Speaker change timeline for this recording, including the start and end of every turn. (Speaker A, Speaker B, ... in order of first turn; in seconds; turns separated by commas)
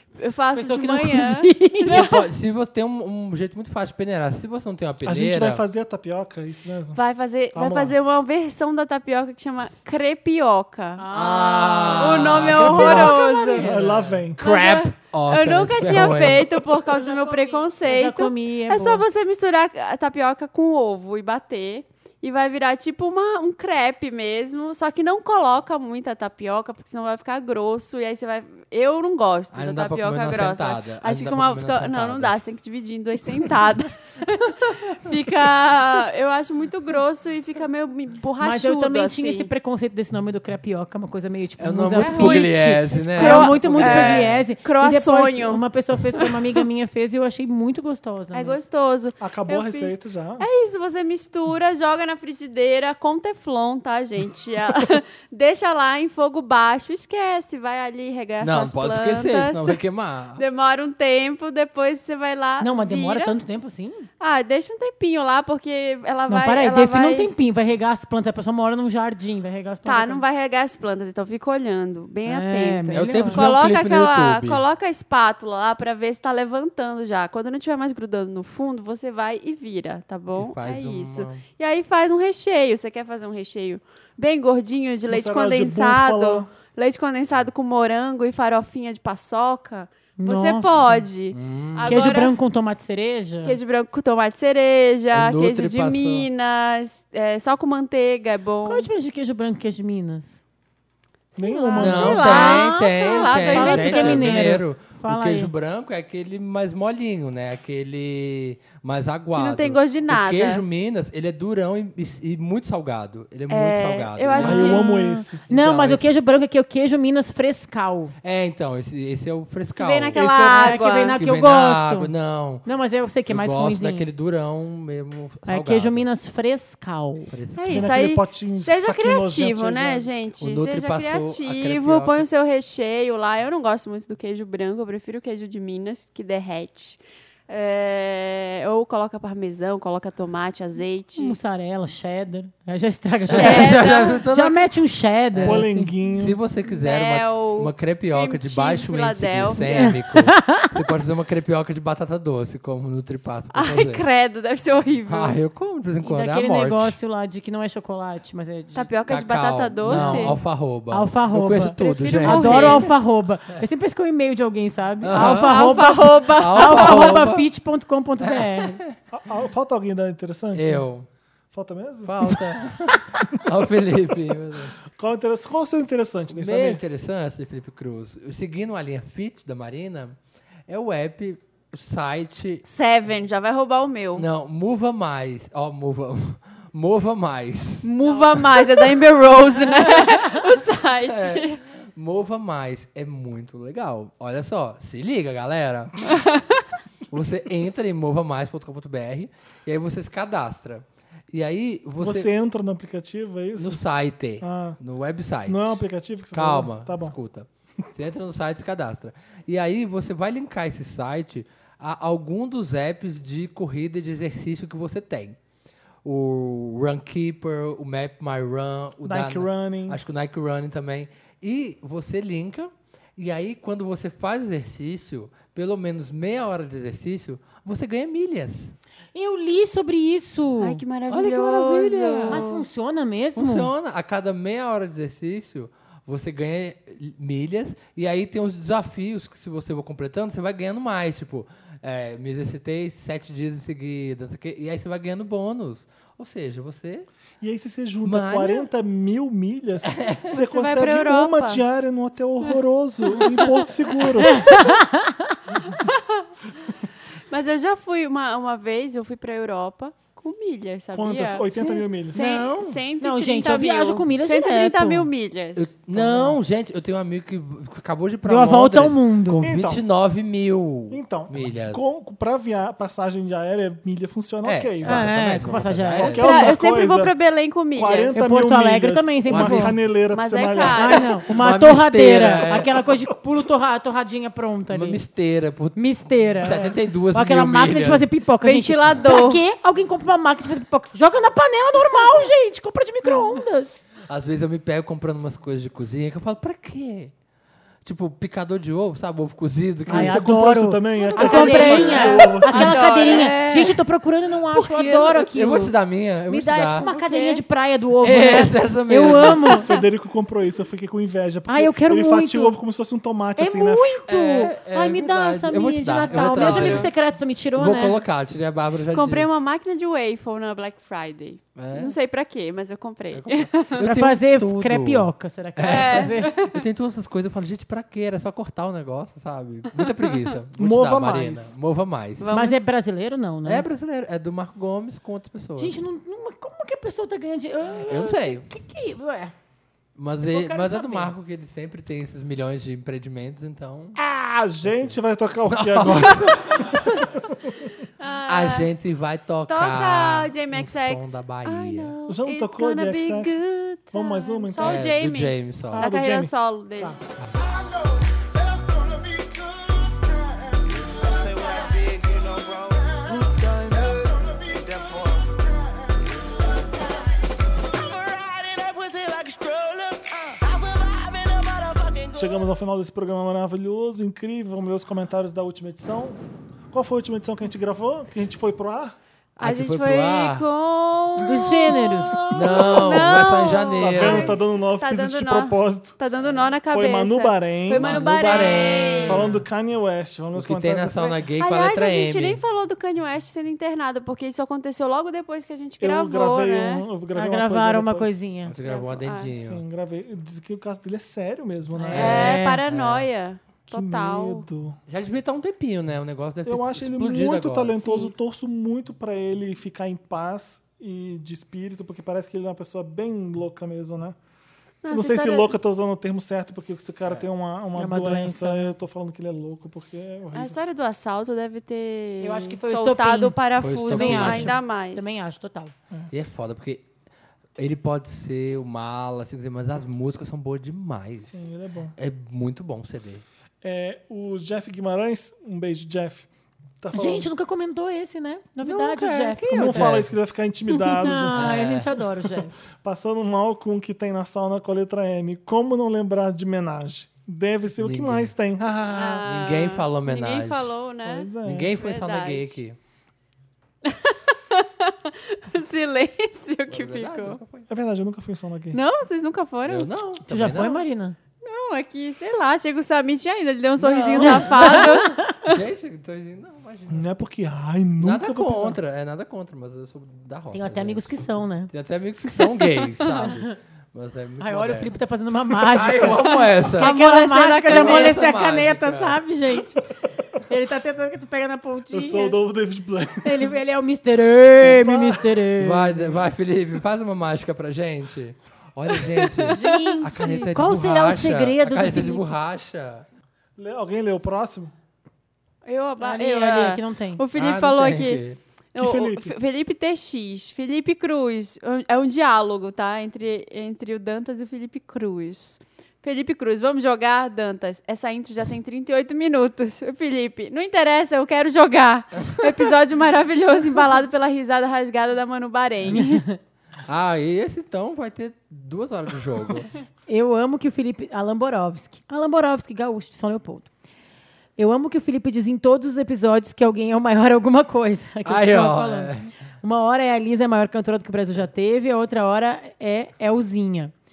Speaker A: 0.2-2.2, Speaker B: 0.5-2.1, Speaker C: 1.9-5.6, Speaker D: 5.0-7.0, Speaker A: 7.0-11.1, Speaker D: 7.5-8.0, Speaker B: 11.0-12.5, Speaker C: 11.1-16.6, Speaker A: 12.0-13.7, Speaker D: 12.6-14.4, Speaker B: 13.2-13.6, Speaker A: 14.4-39.5, Speaker B: 16.7-19.0, Speaker C: 29.5-32.4, Speaker B: 38.4-48.6, Speaker C: 41.6-44.5, Speaker A: 42.0-45.6, Speaker A: 48.3-59.8, Speaker D: 49.2-50.5, Speaker C: 58.4-60.4, Speaker A: 60.4-63.4, Speaker B: 62.6-64.1, Speaker A: 64.2-67.3, Speaker B: 66.3-70.2, Speaker A: 69.9-92.3, Speaker B: 72.3-73.5, Speaker C: 72.9-74.6, Speaker C: 80.4-81.4, Speaker D: 85.1-86.5, Speaker B: 90.2-91.0, Speaker C: 91.3-92.2, Speaker B: 91.9-93.6, Speaker A: 93.4-98.9, Speaker C: 95.1-96.3, Speaker B: 98.7-100.4, Speaker D: 101.4-102.5, Speaker A: 101.4-104.5, Speaker B: 101.7-105.5, Speaker C: 101.8-114.9, Speaker A: 109.3-110.7, Speaker A: 113.5-115.0, Speaker D: 114.4-115.4, Speaker B: 114.5-118.1, Speaker C: 115.5-116.1, Speaker C: 118.2-122.7, Speaker A: 119.8-121.2, Speaker D: 120.2-120.5, Speaker B: 120.3-122.1, Speaker B: 122.6-124.1, Speaker C: 123.3-126.1, Speaker B: 125.5-127.3, Speaker C: 127.3-128.0, Speaker A: 127.5-141.4, Speaker D: 127.7-130.1, Speaker C: 130.4-132.2, Speaker B: 141.2-145.9, Speaker C: 143.2-144.6, Speaker A: 143.3-144.2, Speaker C: 145.3-154.0, Speaker D: 145.4-146.4, Speaker A: 146.7-150.0, Speaker B: 149.8-150.8, Speaker A: 153.5-155.4, Speaker C: 155.1-157.0, Speaker B: 156.0-158.9, Speaker A: 158.8-160.4, Speaker C: 159.1-162.9, Speaker B: 159.9-168.8, Speaker A: 161.8-162.9, Speaker C: 165.0-167.5, Speaker A: 165.1-167.2, Speaker C: 168.2-169.0, Speaker D: 169.1-170.9, Speaker C: 170.6-171.1, Speaker D: 171.5-172.6, Speaker C: 172.1-174.8, Speaker D: 173.1-173.4, Speaker D: 174.9-176.8, Speaker C: 176.3-180.2, Speaker C: 180.7-182.6, Speaker A: 182.6-184.3, Speaker C: 184.2-187.9, Speaker A: 187.8-191.6, Speaker C: 191.1-196.2, Speaker A: 196.2-196.6, Speaker C: 197.1-202.3, Speaker D: 202.0-203.8, Speaker C: 203.6-205.8, Speaker D: 204.4-204.8, Speaker D: 205.5-207.2, Speaker C: 206.3-215.4, Speaker C: 216.0-228.7, Speaker D: 219.0-220.0, Speaker B: 229.2-230.8, Speaker A: 230.6-232.6, Speaker C: 231.1-232.4, Speaker B: 232.3-233.7, Speaker C: 233.4-247.1, Speaker D: 247.4-254.6, Speaker C: 248.1-248.7, Speaker C: 249.9-250.3, Speaker A: 250.3-251.6, Speaker A: 253.1-254.1, Speaker B: 254.2-255.4, Speaker A: 255.8-256.3, Speaker A: 257.3-265.7, Speaker D: 260.9-262.2, Speaker C: 261.6-262.8, Speaker B: 263.0-265.1, Speaker C: 265.6-271.8, Speaker D: 265.9-266.4, Speaker B: 268.3-269.5, Speaker D: 269.4-269.8, Speaker D: 270.9-277.1, Speaker C: 274.4-276.3, Speaker B: 274.9-276.3, Speaker A: 276.1-278.2, Speaker D: 277.7-281.1, Speaker B: 278.1-279.8, Speaker C: 279.3-279.8, Speaker A: 280.1-281.2, Speaker B: 280.7-285.0, Speaker C: 281.3-282.8, Speaker C: 284.7-288.1, Speaker B: 285.8-286.6, Speaker D: 286.4-286.8, Speaker B: 287.1-293.8, Speaker A: 288.4-289.4, Speaker C: 294.1-297.1, Speaker C: 297.8-300.3, Speaker D: 299.9-303.0, Speaker B: 299.9-305.7, Speaker A: 301.2-303.7, Speaker C: 301.2-303.8, Speaker C: 304.4-306.9, Speaker B: 306.3-309.7, Speaker A: 306.8-307.4, Speaker C: 308.0-309.6, Speaker D: 309.4-314.0, Speaker B: 311.5-312.6, Speaker B: 313.4-318.0, Speaker C: 314.1-317.0, Speaker A: 316.1-316.9, Speaker C: 317.5-319.3, Speaker A: 318.9-323.9, Speaker C: 321.6-321.9, Speaker C: 323.1-332.3, Speaker B: 323.8-326.4, Speaker A: 325.7-326.5, Speaker A: 329.8-330.1, Speaker D: 330.6-331.5, Speaker A: 332.2-332.6, Speaker B: 332.3-333.7, Speaker C: 333.4-335.8, Speaker B: 335.6-339.3, Speaker C: 337.8-338.5, Speaker C: 340.0-344.0, Speaker B: 340.3-341.1, Speaker D: 344.0-347.7, Speaker C: 344.7-345.0, Speaker C: 345.5-347.2, Speaker A: 348.0-348.7, Speaker C: 348.3-351.9, Speaker A: 349.5-357.0, Speaker D: 352.1-354.9, Speaker C: 354.6-355.9, Speaker D: 355.7-357.0, Speaker E: 357.4-367.0, Speaker E: 367.6-372.4, Speaker D: 372.1-376.2, Speaker D: 376.7-379.0, Speaker C: 379.4-380.4, Speaker A: 379.4-389.3, Speaker B: 381.2-382.3, Speaker C: 382.3-384.4, Speaker D: 383.8-386.0, Speaker D: 386.7-391.3, Speaker C: 387.8-389.4, Speaker C: 390.4-392.4, Speaker A: 391.4-396.9, Speaker D: 395.8-398.2, Speaker B: 397.1-398.6, Speaker C: 398.5-399.6, Speaker A: 398.6-399.3, Speaker D: 399.4-402.3, Speaker B: 401.8-402.6, Speaker C: 401.9-403.1, Speaker A: 401.9-404.5, Speaker D: 403.7-404.8, Speaker C: 404.9-408.0, Speaker D: 406.4-414.2, Speaker A: 414.8-415.5, Speaker D: 414.9-420.6, Speaker B: 417.8-418.7, Speaker A: 420.3-425.2, Speaker B: 422.2-425.7, Speaker C: 423.6-424.6, Speaker C: 426.1-426.9, Speaker C: 427.6-431.4, Speaker D: 431.2-431.9, Speaker C: 432.0-433.2, Speaker D: 433.6-436.3, Speaker D: 436.8-437.3, Speaker B: 436.9-440.0, Speaker C: 438.6-440.1, Speaker D: 439.5-442.0, Speaker B: 441.0-442.5, Speaker C: 441.3-441.9, Speaker D: 442.8-449.3, Speaker C: 447.8-448.3, Speaker A: 448.9-452.6, Speaker C: 449.3-450.8, Speaker D: 451.0-451.8, Speaker C: 451.4-452.8, Speaker A: 453.9-457.4, Speaker C: 456.7-457.7, Speaker D: 457.7-458.8, Speaker A: 458.7-459.9, Speaker C: 459.7-460.8, Speaker B: 460.3-461.2, Speaker A: 461.4-465.6, Speaker B: 464.2-465.4, Speaker C: 465.4-467.1, Speaker D: 466.9-468.8, Speaker C: 468.0-474.9, Speaker B: 470.5-471.7, Speaker B: 472.6-473.3, Speaker B: 474.4-479.9, Speaker C: 475.7-476.9, Speaker A: 476.0-478.3, Speaker C: 477.7-479.2, Speaker B: 480.4-482.4, Speaker D: 481.9-483.5, Speaker B: 483.2-486.1, Speaker D: 484.6-485.5, Speaker C: 485.6-493.1, Speaker B: 489.5-492.3, Speaker D: 493.6-494.7, Speaker A: 495.6-498.2, Speaker B: 496.0-497.2, Speaker C: 497.4-498.4, Speaker A: 498.8-516.2, Speaker D: 498.8-499.4, Speaker B: 515.9-516.4, Speaker C: 516.9-519.7, Speaker B: 520.1-523.7, Speaker B: 524.6-533.9, Speaker C: 528.3-529.3